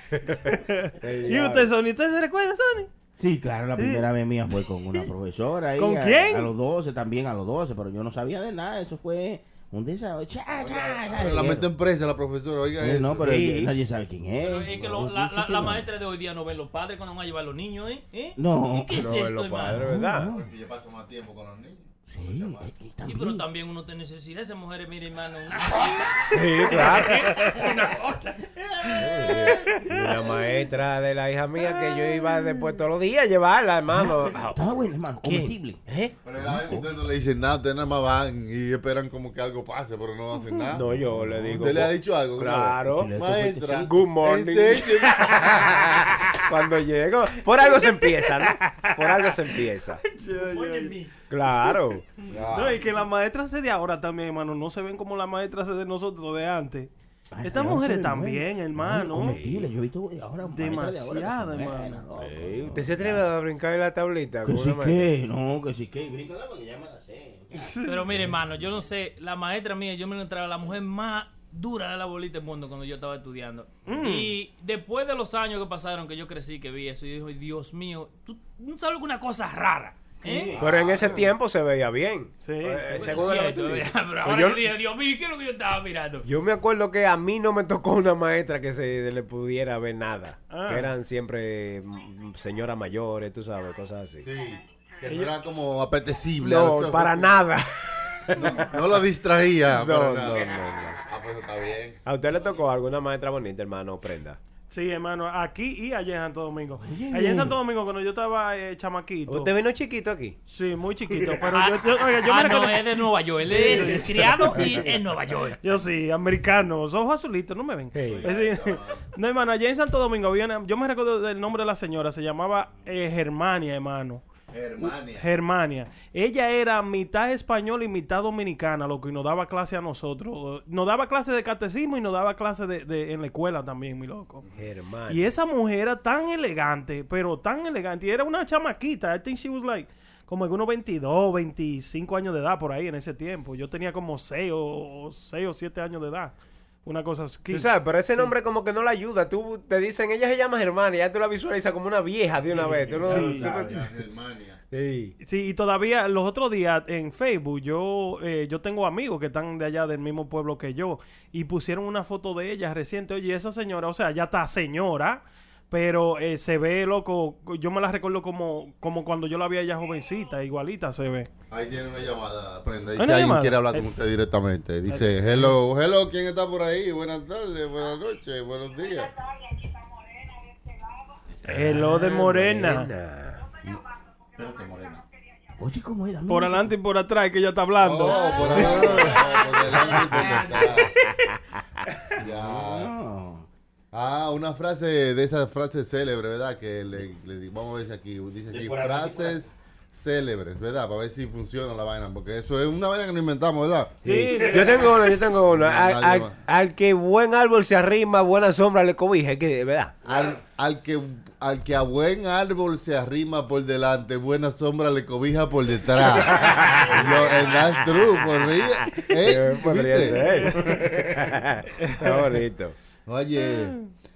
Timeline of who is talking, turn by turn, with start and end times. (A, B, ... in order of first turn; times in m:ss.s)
0:00.1-0:01.7 A
0:00.5-0:02.9 B
0:03.1-0:11.7 C
0:03.8-0:04.0 B
0:05.8-0:06.5 B
0:10.5-0:13.2 D
0:12.8-0:15.8 C
0:13.2-0:13.7 A
0:14.4-0:20.0 E
0:18.4-0:20.5 C
0:18.9-0:20.3 A
0:20.3-0:22.7 D
0:22.1-0:23.4 C
0:23.0-0:28.9 E
0:26.3-0:27.4 A
0:28.9-0:29.9 C
0:29.0-0:29.6 D
0:29.2-0:36.1 A
0:33.9-0:35.8 C
0:36.2-0:40.8 D
0:36.4-0:36.9 C
0:40.7-0:43.1 A
0:40.9-0:41.7 C
0:41.4-0:45.8 D
0:42.9-0:44.0 C
0:43.8-0:50.0 A
0:50.0-0:51.1 B
0:50.5-0:51.0 E
0:51.3-0:52.0 A
0:52.3-0:52.8 D
0:52.5-0:56.9 B
0:57.3-1:03.2 C
0:57.4-0:59.4 B
0:59.1-0:59.7 A
1:00.5-1:02.0 B
1:02.2-1:05.1 A
1:04.4-1:07.8 C
1:07.6-1:08.0 B
1:07.8-1:20.5 E
1:13.8-1:14.3 B
1:20.2-1:21.3 C
1:20.5-1:21.2 D
1:20.6-1:24.7 A
1:22.4-1:23.3 B
1:22.9-1:26.2 E
1:26.2-1:34.2 A
1:30.5-1:30.9 B
1:34.2-1:37.4 D
1:36.4-1:38.7 A
1:38.3-1:42.0 D
1:39.7-1:41.0 A
1:42.0-1:44.4 A
1:44.7-1:49.5 B
1:46.8-1:47.6 C
1:49.3-1:50.4 A
1:50.5-1:54.7 B
1:51.5-1:55.6 E
1:55.6-2:04.2 B
1:57.9-1:58.2 A
1:58.0-1:59.1 D
2:04.5-2:05.3 D
2:04.8-2:14.4 B
2:14.5-2:15.3 A
2:15.1-2:26.3 B
2:26.8-2:28.3 B
2:27.5-2:33.9 A
2:32.6-2:33.5 B
2:33.0-2:34.6 D
2:33.0-2:33.8 C
2:34.7-2:35.1 A
2:35.2-2:51.3 B
2:51.5-2:59.1 D
2:53.0-2:53.9 B
3:01.4-3:03.4 A
3:01.5-3:02.9 B
3:04.3-3:05.0 C
3:05.6-3:06.7 C
3:06.3-3:08.7 B
3:07.8-3:10.9 D
3:08.2-3:10.9 C
3:08.5-3:09.1 A
3:12.2-3:13.4 C
3:12.2-3:12.9 D
3:13.9-3:24.0 D
3:18.5-3:19.4 C
3:24.0-3:24.9 B
3:24.0-3:30.0 A
3:25.4-3:26.3 D
3:30.0-3:40.5 D
3:36.0-3:37.7 A
3:38.9-3:42.7 A
3:40.2-3:40.8 B
3:41.8-3:42.2 B
3:43.0-3:43.8 D